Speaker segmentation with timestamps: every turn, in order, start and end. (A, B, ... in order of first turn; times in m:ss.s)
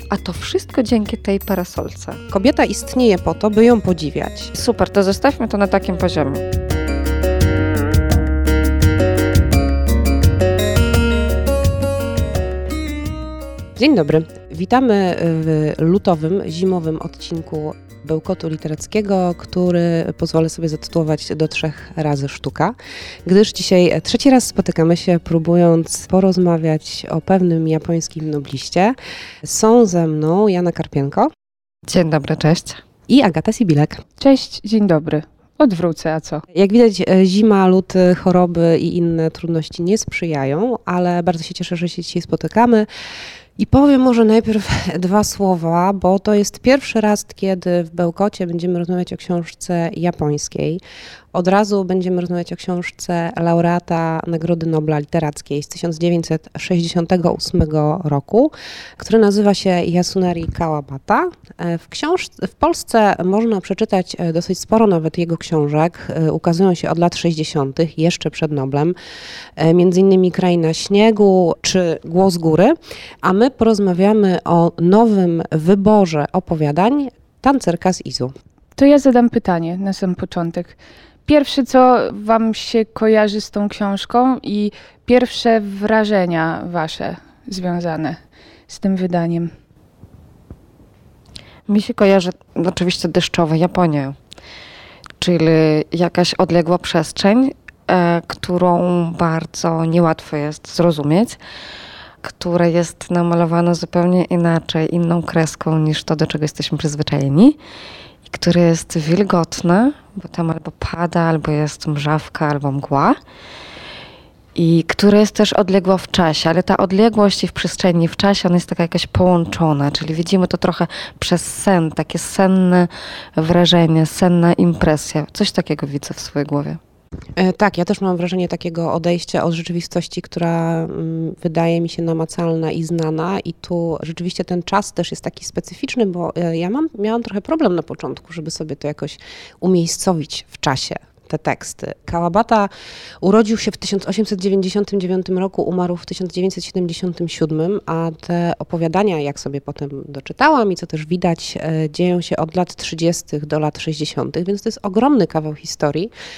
0:00.1-0:02.2 A
0:02.3-0:04.5 B
0:04.5-0:06.4 A
0:13.8-0:22.7 B
0:23.2-0:31.3 B
0:31.9-0:32.8 A
0:33.1-0:34.0 B
0:34.2-0:36.4 C
0:36.5-0:42.9 B
0:43.6-0:50.8 B
0:51.3-1:08.9 B
1:09.6-1:18.3 B
1:18.8-1:29.5 C
1:31.7-1:34.2 A
1:35.2-1:41.4 A
1:42.2-1:47.6 A
1:48.2-1:53.2 A
1:54.6-2:06.8 A
2:07.4-2:22.7 B
2:23.2-2:36.1 B